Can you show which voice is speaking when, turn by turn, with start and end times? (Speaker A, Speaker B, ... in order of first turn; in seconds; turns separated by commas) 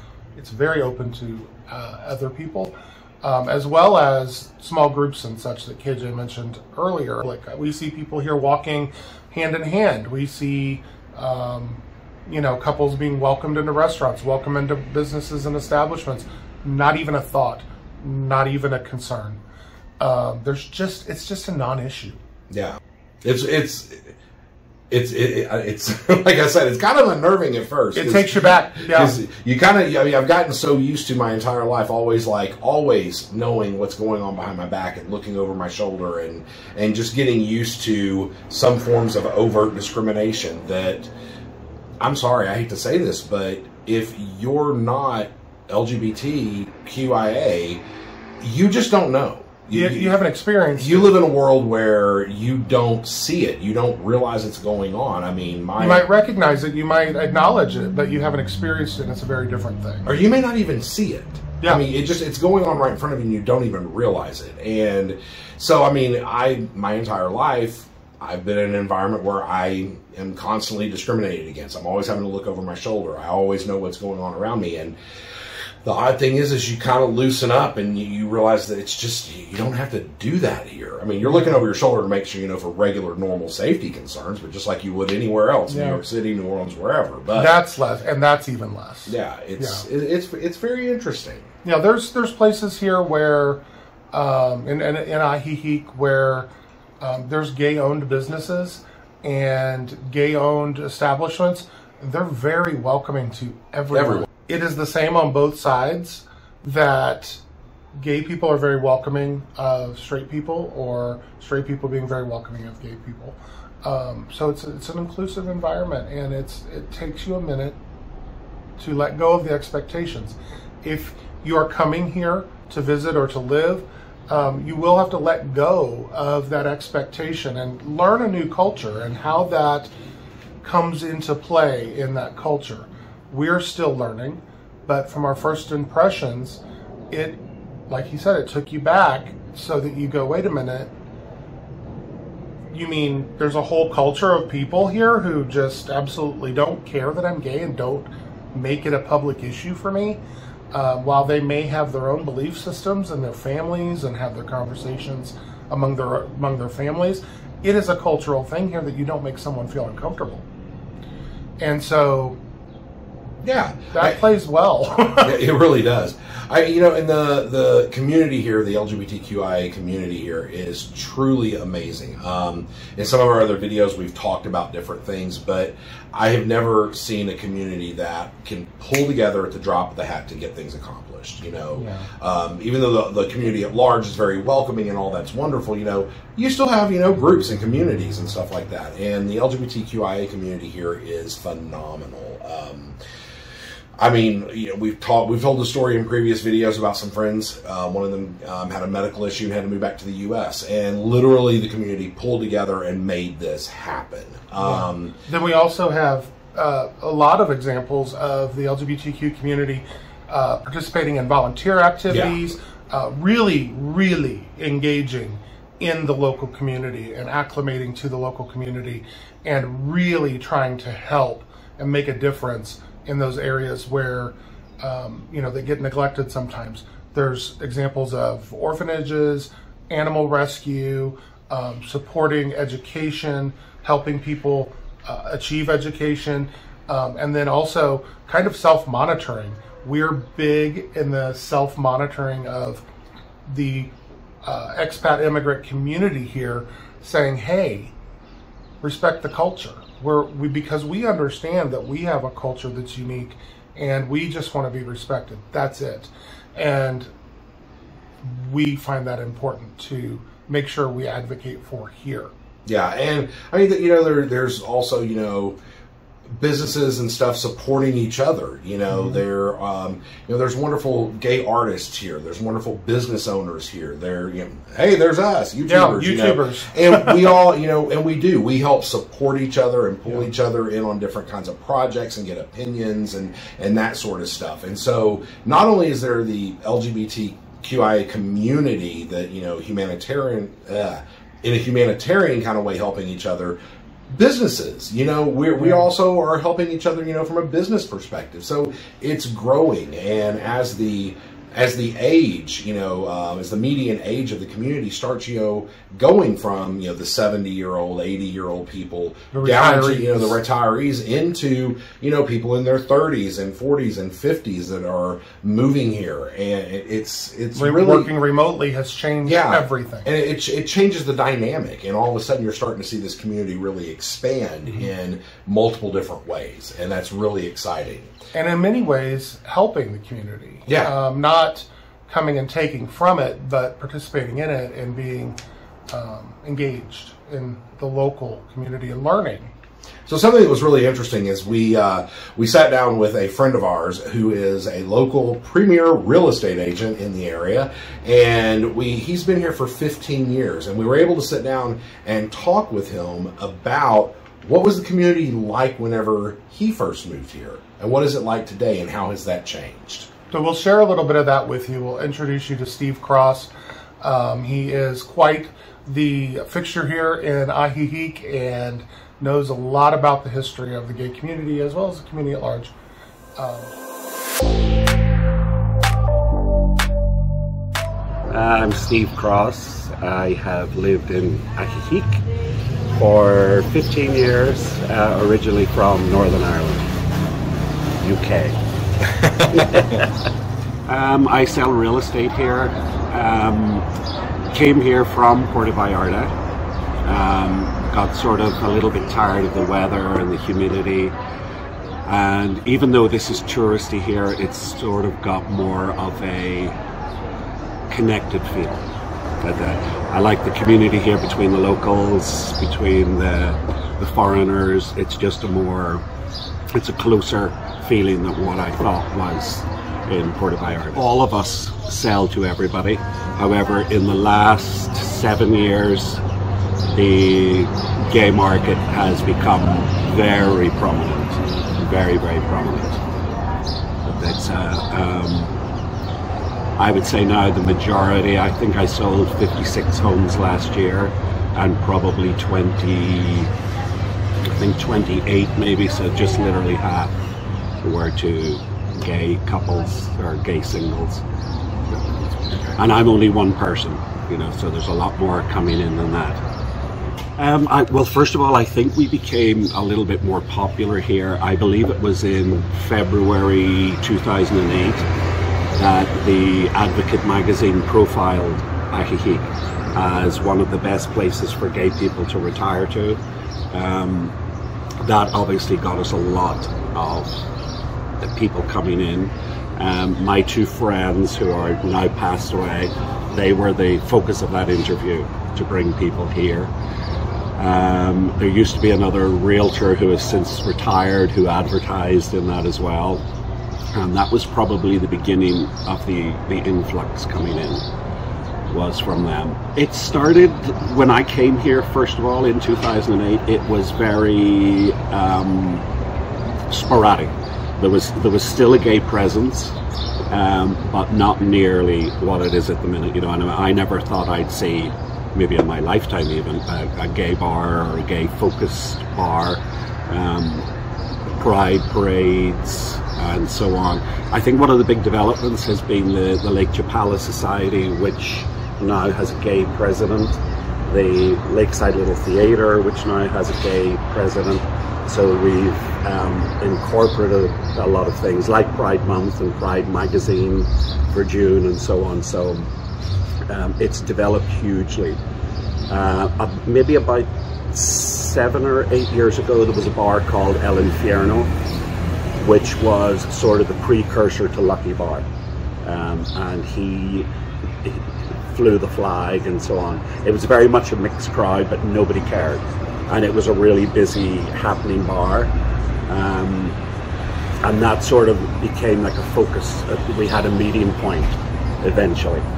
Speaker A: 0.4-19.4, Speaker A: 20.0-22.2, Speaker B: 22.5-24.1, Speaker B: 24.9-41.1, Speaker A: 27.9-29.1, Speaker B: 42.0-47.8, Speaker B: 48.4-50.2, Speaker A: 49.7-51.2, Speaker B: 50.8-56.0, Speaker A: 55.8-60.1, Speaker B: 60.0-75.0, Speaker B: 75.8-87.6, Speaker A: 81.2-81.6, Speaker A: 85.7-86.0, Speaker A: 87.3-89.8, Speaker B: 89.0-91.5, Speaker A: 91.6-96.5, Speaker A: 97.0-107.4, Speaker B: 103.9-104.3, Speaker A: 108.0-117.8, Speaker A: 118.8-129.9, Speaker A: 130.6-140.9, Speaker A: 142.7-150.2, Speaker A: 150.7-160.4, Speaker A: 161.6-162.4, Speaker B: 163.4-164.2, Speaker A: 163.9-165.4, Speaker B: 165.2-193.0, Speaker A: 181.7-182.1, Speaker B: 194.0-205.1, Speaker A: 204.6-242.8, Speaker B: 212.1-212.4, Speaker A: 243.4-243.9, Speaker A: 244.4-247.9, Speaker A: 248.8-257.1, Speaker A: 258.2-262.3, Speaker B: 262.6-265.6, Speaker B: 266.3-293.6, Speaker A: 268.9-269.2, Speaker A: 275.6-277.2, Speaker B: 294.1-318.1, Speaker A: 309.3-310.4, Speaker A: 317.5-320.1, Speaker B: 319.2-328.1, Speaker A: 328.3-335.4, Speaker B: 330.7-330.9, Speaker A: 335.9-339.5, Speaker B: 340.1-360.1, Speaker A: 360.3-372.7, Speaker A: 373.4-373.7, Speaker C: 378.3-382.2, Speaker C: 382.9-386.9, Speaker C: 388.0-388.6, Speaker B: 389.0-390.0, Speaker C: 389.5-390.1, Speaker C: 390.9-393.9, Speaker C: 394.5-396.3, Speaker C: 397.0-401.1, Speaker C: 402.0-406.8, Speaker C: 407.9-408.9, Speaker C: 409.4-416.0, Speaker C: 416.7-426.2, Speaker C: 426.9-433.0, Speaker C: 434.1-435.5, Speaker C: 436.8-443.5, Speaker C: 444.4-447.1, Speaker C: 447.8-451.2, Speaker B: 452.5-452.8, Speaker C: 452.8-456.4, Speaker C: 457.4-465.0, Speaker C: 465.8-473.2, Speaker C: 473.7-474.3, Speaker C: 475.0-477.3, Speaker C: 478.2-486.7, Speaker C: 487.6-493.2, Speaker C: 493.9-497.8, Speaker C: 498.7-505.9, Speaker C: 506.7-509.8, Speaker C: 510.3-520.6, Speaker C: 521.4-542.7, Speaker C: 543.5-545.2, Speaker C: 545.9-551.5, Speaker C: 552.4-555.2, Speaker C: 555.8-557.3, Speaker C: 557.8-565.5, Speaker C: 566.1-566.8, Speaker C: 567.6-572.4